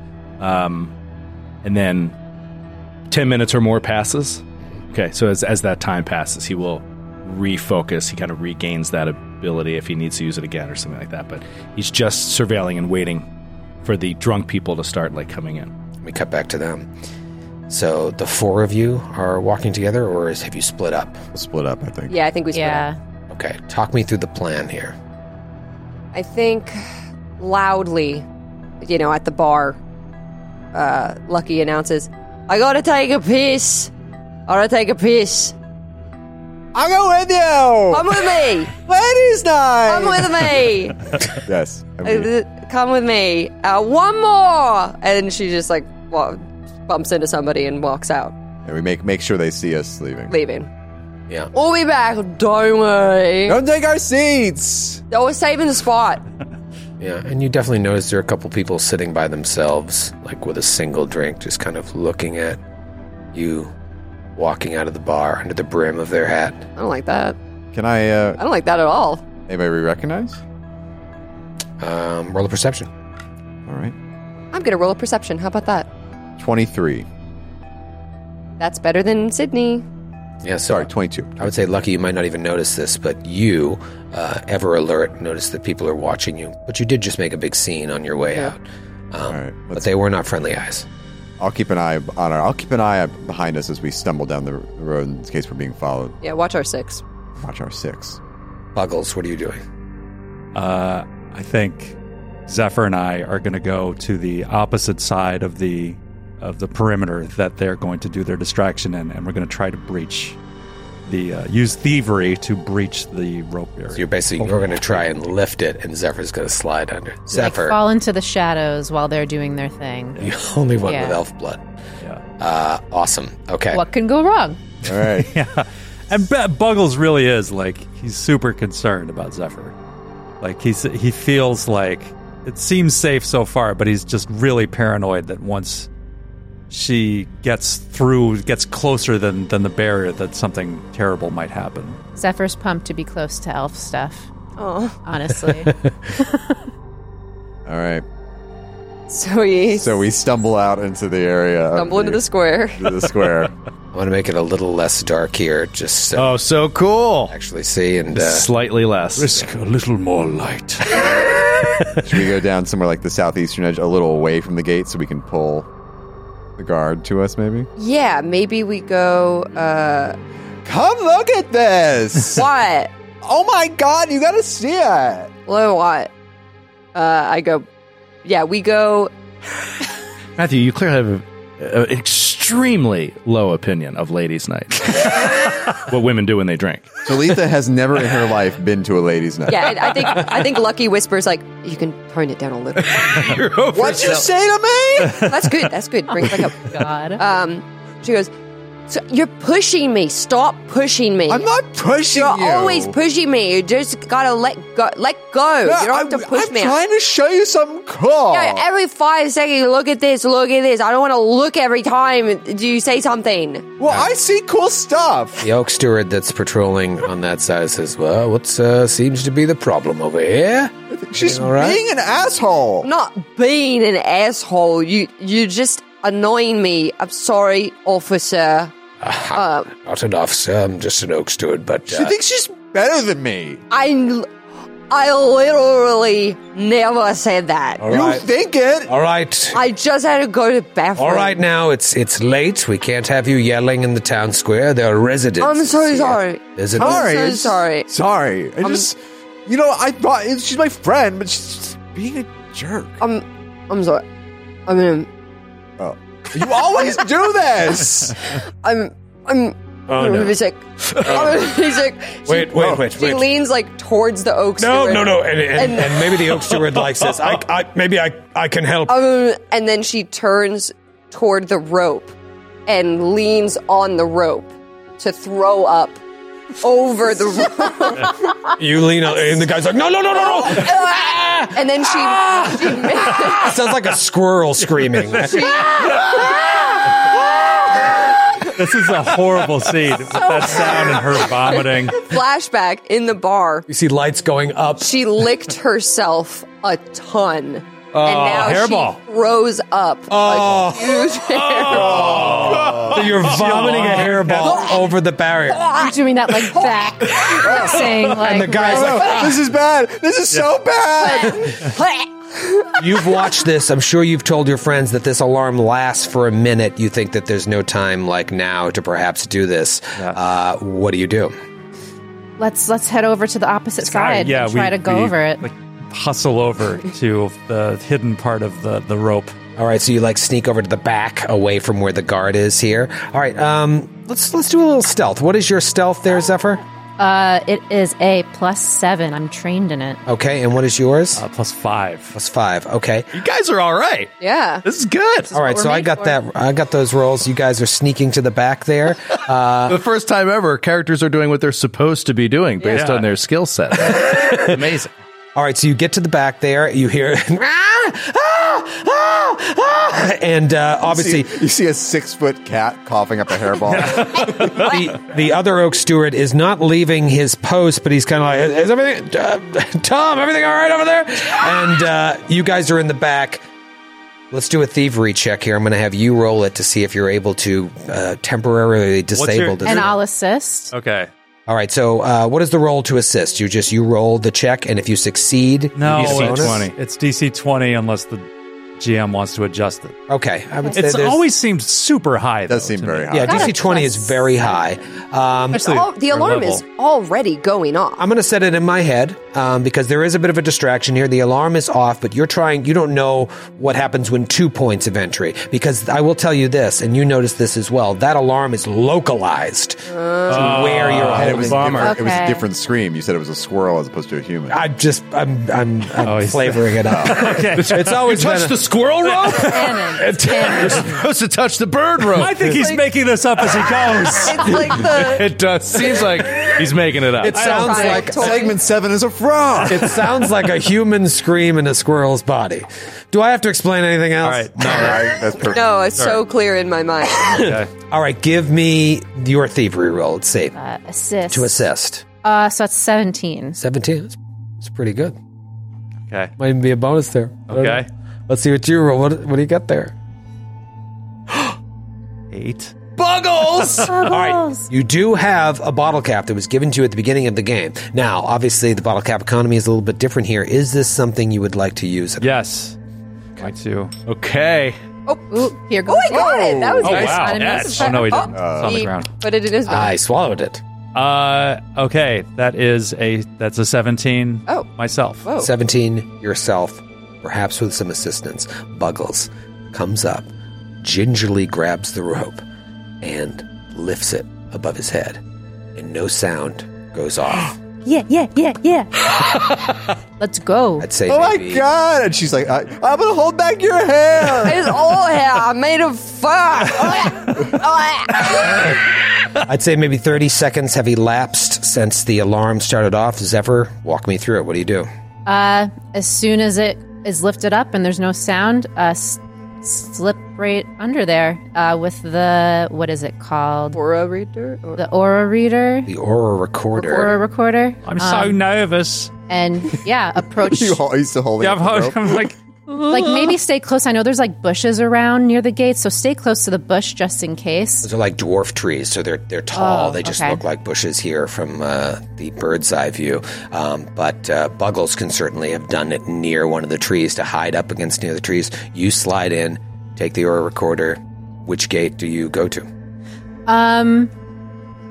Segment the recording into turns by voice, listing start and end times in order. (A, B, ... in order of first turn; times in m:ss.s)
0:00.4-0:00.9 A
0:01.6-0:02.2 A
0:03.1-0:13.3 A
0:13.8-0:15.7 A
0:16.0-0:16.9 B
0:17.7-0:21.2 B
0:21.3-0:22.2 C
0:22.1-0:22.9 D
0:22.5-0:23.0 E
0:23.3-0:25.0 B
0:26.1-0:26.9 D
0:27.4-0:28.3 D
0:28.8-0:29.8 D
0:30.7-0:33.9 D
0:34.5-0:35.6 D
0:36.7-0:40.7 C
0:37.9-0:38.7 D
0:39.9-0:41.0 D
0:41.3-0:42.3 C
0:42.0-0:48.3 D
0:48.6-0:50.4 C
0:50.3-0:50.7 D
0:51.5-0:53.6 D
0:53.5-0:55.0 C
0:55.1-0:56.2 D
0:57.0-1:02.6 B
1:03.3-1:03.7 B
1:04.4-1:06.7 B
1:06.8-1:07.4 D
1:07.7-1:08.4 C
1:08.4-1:09.2 D
1:09.5-1:10.4 C
1:11.8-1:12.9 B
1:13.7-1:14.0 C
1:14.5-1:15.9 D
1:16.4-1:17.1 C
1:18.6-1:19.8 D
1:20.4-1:30.9 B
1:20.7-1:21.6 C
1:29.3-1:29.9 C
1:31.4-1:36.2 C
1:36.2-1:37.0 D
1:37.4-1:38.2 C
1:38.8-1:39.6 B
1:40.5-1:50.4 F
1:51.1-1:55.0 F
1:53.9-1:57.8 B
1:57.3-2:00.2 E
2:00.2-2:01.6 B
2:00.8-2:01.2 E
2:02.4-2:03.8 B
2:03.7-2:04.6 E
2:04.8-2:05.4 C
2:05.2-2:09.8 F
2:10.4-2:15.9 F
2:16.7-2:22.0 F
2:22.2-2:24.3 E
2:24.6-2:25.0 D
2:25.0-2:26.6 E
2:27.7-2:28.0 C
2:29.1-2:30.0 D
2:29.7-2:33.5 C
2:31.7-2:33.1 D
2:33.9-2:36.3 B
2:36.2-2:37.3 A
2:37.3-2:38.5 B
2:38.1-2:39.5 A
2:39.2-2:41.4 F
2:42.0-2:45.7 C
2:46.6-2:47.7 C
2:47.8-2:50.2 D
2:50.6-2:52.5 C
2:52.3-2:52.9 D
2:53.2-2:55.3 C
2:55.5-2:56.1 D
2:56.9-2:57.7 D
2:58.2-2:59.1 D
3:00.4-3:07.0 A
3:07.1-3:10.3 C
3:09.5-3:13.4 D
3:12.8-3:14.2 A
3:13.7-3:15.3 C
3:15.2-3:18.3 D
3:16.1-3:17.2 E
3:18.9-3:21.5 D
3:21.3-3:23.0 C
3:22.1-3:26.8 D
3:25.6-3:28.7 C
3:28.3-3:33.7 D
3:33.8-3:35.5 C
3:35.4-3:41.8 B
3:40.9-3:42.9 C
3:42.8-3:48.7 D
3:49.0-3:52.2 B
3:49.3-3:49.7 D
3:51.9-3:53.6 C
3:53.7-3:54.3 D
3:54.9-3:57.9 D
3:57.8-3:58.3 B
3:57.8-3:58.9 C
3:58.9-3:59.6 B
3:59.5-4:01.4 D
4:01.0-4:07.2 B
4:05.4-4:07.9 D
4:06.8-4:13.0 C
4:08.6-4:08.9 D
4:13.0-4:14.0 D
4:14.7-4:15.1 D
4:15.8-4:18.3 C
4:18.2-4:26.3 D
4:19.9-4:20.4 B
4:21.1-4:21.4 C
4:22.3-4:23.2 B
4:22.5-4:23.0 C
4:24.6-4:29.1 B
4:28.9-4:32.2 D
4:32.7-4:36.0 D
4:36.6-4:38.3 D
4:38.5-4:48.5 B
4:40.3-4:41.0 D
4:41.5-4:43.6 D
4:44.9-4:45.3 F
4:45.2-4:46.3 D
4:48.6-4:52.1 F
4:50.4-4:51.3 D
4:52.0-4:53.7 D
4:53.7-4:55.0 B
4:54.8-5:02.4 D
4:57.9-4:58.5 A
4:58.0-4:59.0 F
5:00.1-5:05.7 B
5:01.8-5:03.0 C
5:01.9-5:04.6 F
5:02.5-5:03.3 A
5:05.7-5:09.2 E
5:06.7-5:11.7 C
5:08.0-5:09.4 B
5:11.0-5:13.2 D
5:12.8-5:21.3 B
5:22.4-5:25.4 E
5:23.8-5:29.4 F
5:29.6-5:36.6 B
5:37.0-5:40.0 E
5:40.1-5:41.2 B
5:41.2-5:42.2 F
5:42.1-5:43.1 B
5:43.1-5:45.3 A
5:44.2-5:44.6 D
5:45.3-5:46.2 E
5:45.3-5:49.8 B
5:49.7-5:54.9 A
5:52.7-5:53.1 F
5:54.1-5:54.5 B
5:55.4-6:01.4 B
6:00.9-6:04.5 C
6:03.8-6:13.4 B
6:04.0-6:04.2 F
6:14.3-6:19.9 B
6:19.1-6:19.9 F
6:19.6-6:20.7 E
6:20.7-6:21.1 F
6:21.5-6:26.7 B
6:25.8-6:30.0 F
6:25.9-6:26.8 A
6:30.1-6:31.2 B
6:30.7-6:33.5 F
6:32.5-6:33.3 C
6:33.1-6:35.8 B
6:33.2-6:34.5 E
6:35.5-6:36.6 F
6:35.6-6:38.0 D
6:38.0-6:52.0 B
6:49.9-6:50.5 D
6:50.3-6:51.9 A
6:51.1-6:54.6 C
6:51.8-6:52.4 E
6:54.5-6:58.6 B
6:56.0-6:57.9 F
6:57.5-7:02.5 A
6:59.5-7:00.8 E
7:00.0-7:00.8 B
7:02.1-7:04.8 F
7:04.2-7:05.2 D
7:04.4-7:07.5 A
7:07.2-7:08.5 B
7:07.3-7:08.1 F
7:07.4-7:08.6 D
7:07.8-7:10.2 C
7:09.6-7:15.4 B
7:14.2-7:15.1 F
7:14.6-7:15.7 C
7:15.5-7:17.4 D
7:15.9-7:16.2 F
7:17.1-7:20.6 B
7:17.4-7:17.7 F
7:20.6-7:21.6 E
7:21.3-7:22.0 B
7:22.2-7:23.6 E
7:23.6-7:25.2 B
7:26.1-7:26.4 F
7:26.4-7:29.9 B
7:27.5-7:27.9 F
7:32.3-7:34.0 F
7:33.0-7:42.3 B
7:33.9-7:34.7 E
7:42.2-7:42.8 F
7:43.4-7:43.9 F
7:44.1-7:44.8 A
7:45.1-7:49.9 D
7:45.3-7:48.3 E
7:46.1-7:47.2 C
7:46.8-7:49.1 F
7:46.9-7:47.8 A
7:48.3-7:48.9 C
7:49.7-7:50.6 B
7:50.9-7:55.3 F
7:55.2-7:55.5 D
7:55.4-8:00.3 B
8:00.8-8:02.4 B
8:03.0-8:05.2 B
8:05.8-8:07.6 B
8:07.8-8:09.1 E
8:10.2-8:10.9 E
8:10.8-8:11.7 B
8:11.1-8:14.8 C
8:14.4-8:18.7 D
8:18.5-8:24.9 B
8:25.3-8:33.8 E
8:33.7-8:34.8 D
8:34.8-8:35.9 E
8:35.9-8:37.1 B
8:36.8-8:38.4 E
8:37.8-8:39.1 F
8:39.3-8:40.8 E
8:40.4-8:42.2 C
8:41.4-8:43.3 F
8:42.8-8:47.9 E
8:47.8-9:02.7 B
8:49.5-8:50.4 E
9:03.5-9:04.1 E